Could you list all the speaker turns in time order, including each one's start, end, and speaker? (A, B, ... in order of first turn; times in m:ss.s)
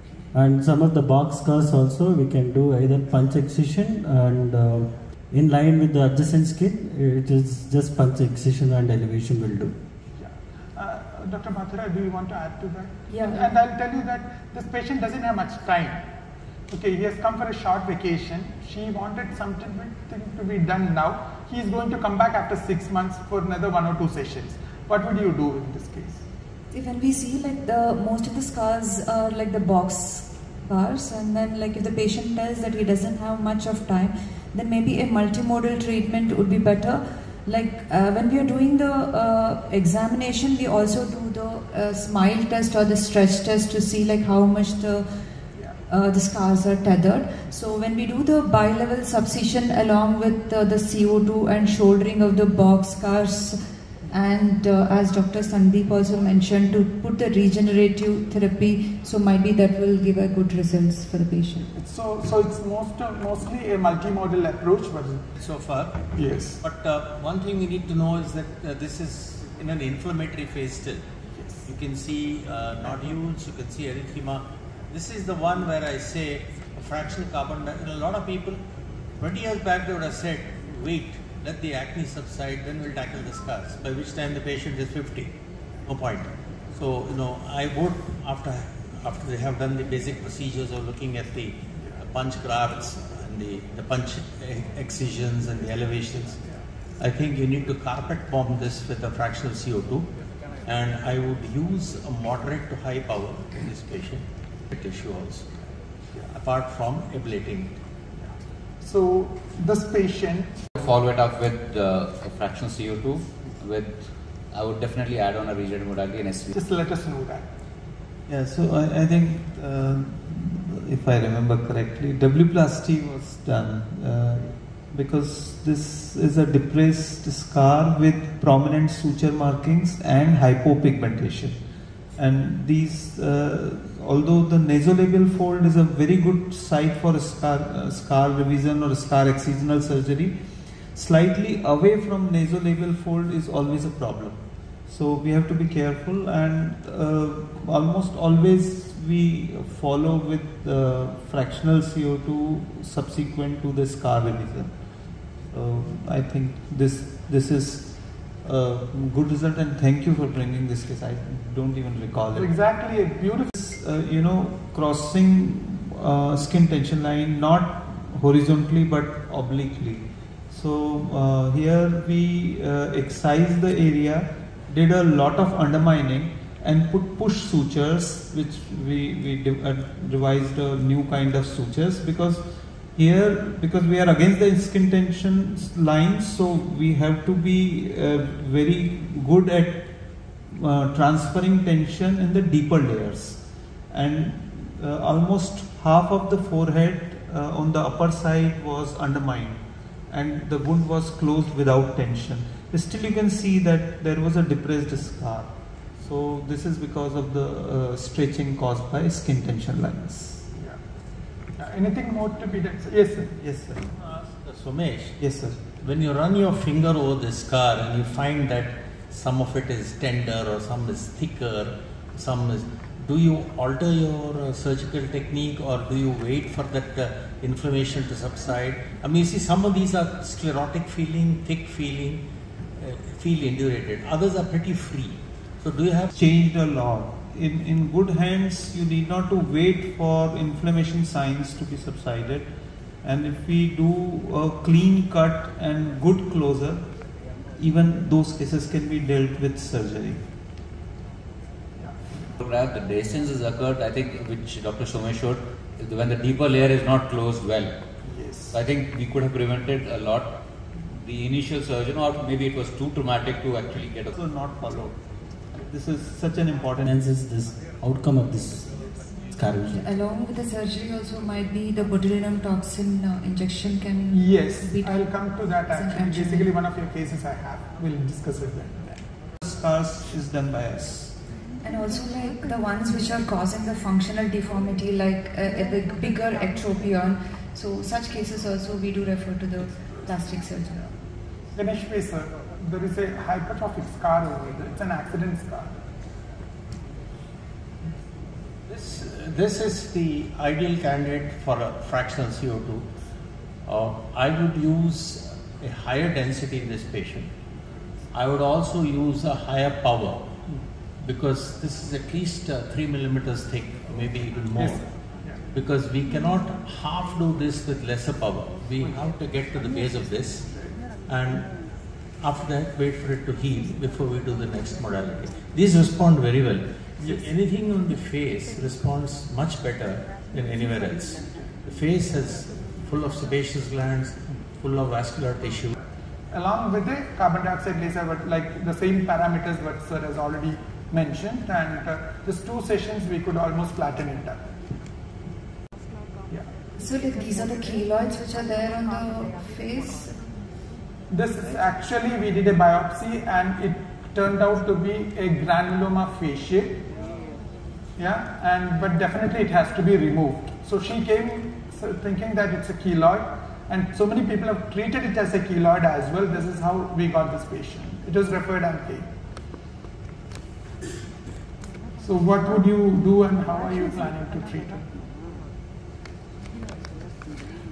0:00.3-0:09.8 A
0:10.2-0:16.0 B
0:13.1-0:13.5 C
0:16.7-0:26.2 B
0:26.7-0:45.0 C
0:45.9-1:01.7 C
1:01.7-1:05.2 B
1:05.4-1:06.0 D
1:06.1-1:06.6 B
1:06.6-1:11.0 D
1:11.4-1:11.6 B
1:11.6-1:18.6 D
1:19.2-1:25.3 D
1:25.8-1:36.4 D
1:37.0-1:40.1 D
1:40.6-1:45.5 D
1:46.3-1:47.7 D
1:48.2-1:50.7 B
1:50.8-1:56.5 E
1:56.5-1:57.5 B
1:58.3-2:11.6 F
2:12.2-2:20.3 F
2:20.9-2:34.7 F
2:35.5-2:37.9 F
2:38.4-2:42.5 F
2:42.3-2:43.5 B
2:43.5-3:02.4 F
3:03.0-3:09.8 F
3:10.5-3:30.4 F
3:31.6-3:33.3 B
3:33.4-3:33.9 F
3:33.9-3:35.2 D
3:35.2-3:35.6 F
3:35.8-3:52.2 D
3:52.8-3:56.1 D
3:56.1-4:02.5 F
4:03.0-4:06.8 F
4:07.6-4:10.2 F
4:12.4-4:17.8 E
4:18.0-4:18.6 B
4:18.5-4:20.4 E
4:20.9-4:24.1 E
4:24.1-4:25.0 F
4:25.6-4:26.9 F
4:26.8-4:29.8 A
4:29.7-4:35.0 C
4:34.1-4:39.0 B
4:35.7-4:36.5 C
4:39.4-4:41.1 F
4:41.6-4:50.8 C
4:51.5-4:55.7 B
4:58.7-5:02.8 D
5:03.6-5:07.3 D
5:08.1-5:10.3 D
5:11.0-5:14.8 D
5:14.6-5:15.4 B
5:15.5-5:20.5 D
5:21.1-5:21.5 D
5:22.2-5:35.7 D
5:36.3-5:44.5 B
5:46.8-5:50.1 C
5:51.1-5:56.8 B
5:58.0-6:09.1 B
6:12.0-6:14.8 B